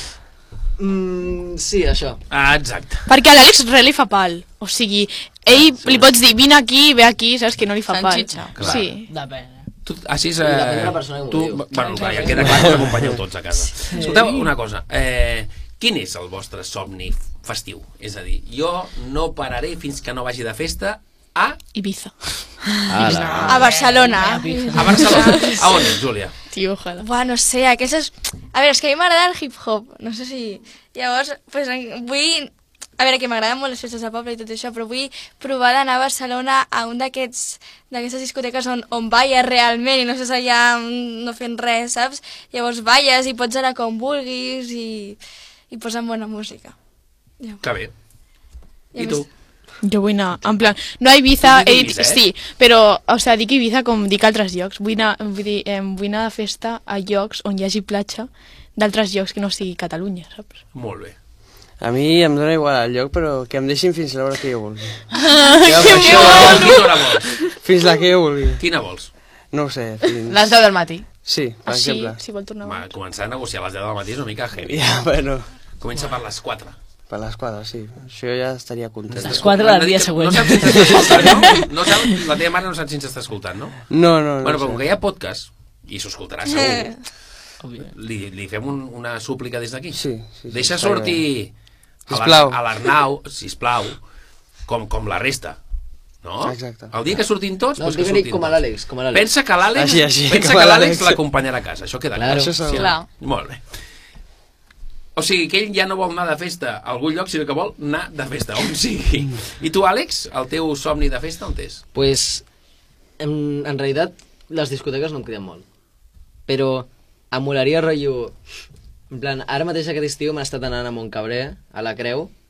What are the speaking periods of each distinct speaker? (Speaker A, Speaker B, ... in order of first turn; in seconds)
Speaker A: 0.8-2.2, 10.4-12.4, 22.9-23.6, 97.8-99.3, 102.2-102.6, 111.9-112.5, 113.2-115.7, 116.5-118.3, 119.1-122.3
Speaker B: 2.3-3.1, 8.6-8.8, 9.8-21.6, 22.9-23.6, 24.7-26.3, 47.6-47.9, 49.0-49.3, 51.4-52.2, 60.7-61.1, 65.9-67.3, 68.6-69.1, 72.6-74.7, 75.8-76.8, 79.2-83.8, 84.4-87.0, 87.8-91.5, 92.1-94.0, 94.7-95.6, 96.2-103.6, 105.2-111.8
Speaker C: 3.1-9.1, 21.7-22.5, 25.3-25.6, 26.5-27.1, 49.8-60.6, 71.7-72.9
Speaker D: 7.9-8.8, 65.2-67.3, 70.3-71.1, 102.7-103.1
Speaker E: 9.0-9.7, 11.8-12.8, 13.9-14.5, 23.5-25.3, 79.2-81.6, 87.6-87.9
Speaker F: 23.5-25.6, 27.0-45.2, 45.7-46.7, 48.9-49.3, 86.5-87.0
Speaker G: 61.8-65.0, 65.6-66.9, 67.6-68.6, 69.5-70.5, 71.2-72.2, 74.6-75.5, 77.1-79.5, 83.9-84.9, 89.9-91.2, 92.1-92.6, 96.4-97.0, 99.8-101.2, 102.3-102.9